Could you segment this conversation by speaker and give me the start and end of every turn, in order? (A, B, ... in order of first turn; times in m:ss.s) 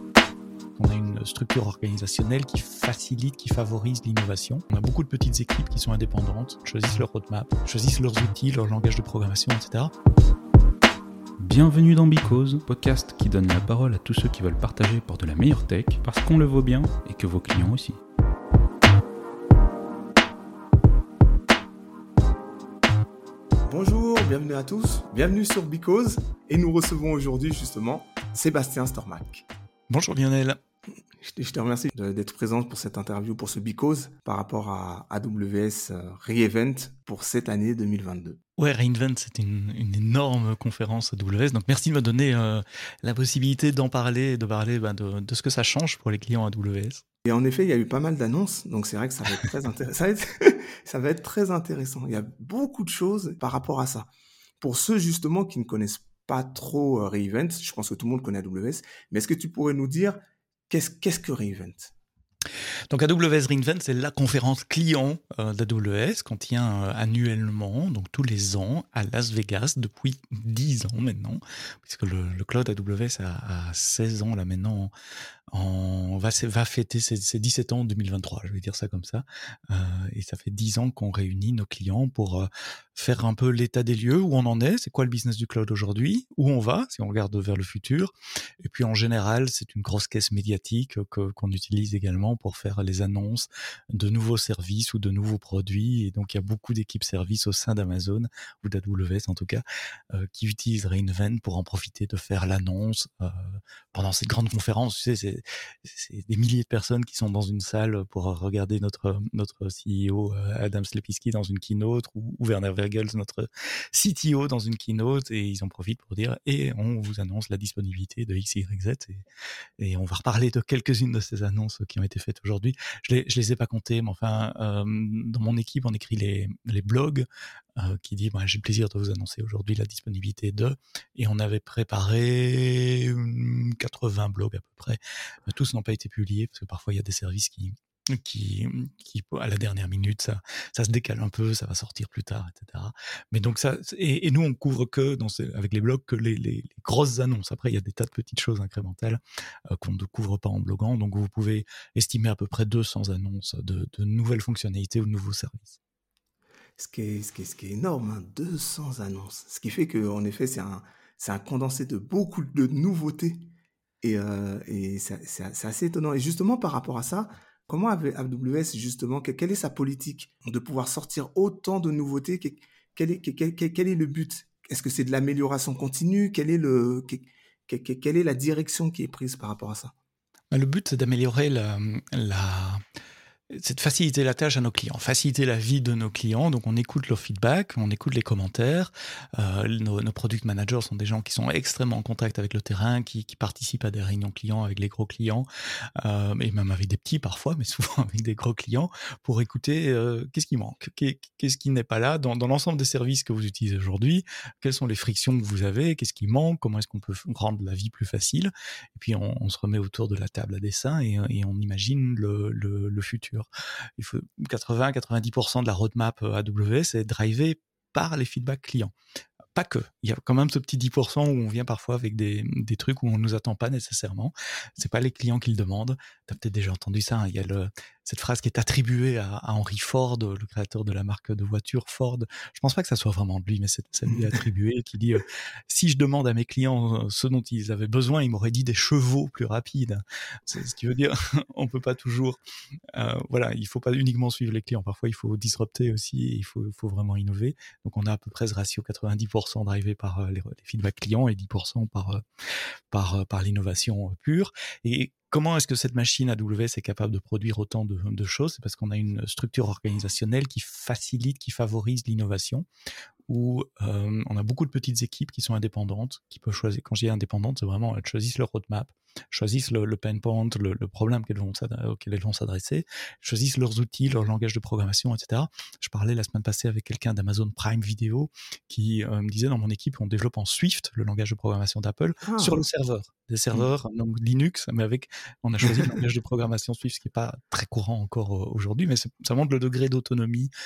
0:00.8-0:09.9 A
0:11.4-0:18.0 B
0:23.7-0:29.5 C
0:29.9-0:30.6 A
0:31.2-0:38.4 C
0:38.6-0:47.0 A
0:47.2-0:54.1 C
0:54.6-1:00.2 C
1:00.7-1:01.9 C
1:02.9-1:14.9 A
1:15.5-1:59.2 A
1:59.8-2:07.2 A
2:07.8-2:29.2 A
2:29.7-2:35.8 A
2:36.8-2:43.5 C
2:44.0-2:59.9 C
3:00.5-3:02.8 A
3:03.5-3:15.5 A
3:16.0-3:38.9 A
3:39.6-4:02.4 A
4:02.9-4:12.2 A
4:12.9-4:22.7 A
4:23.3-4:50.5 A
4:42.2-4:42.6 C
4:45.6-4:46.0 C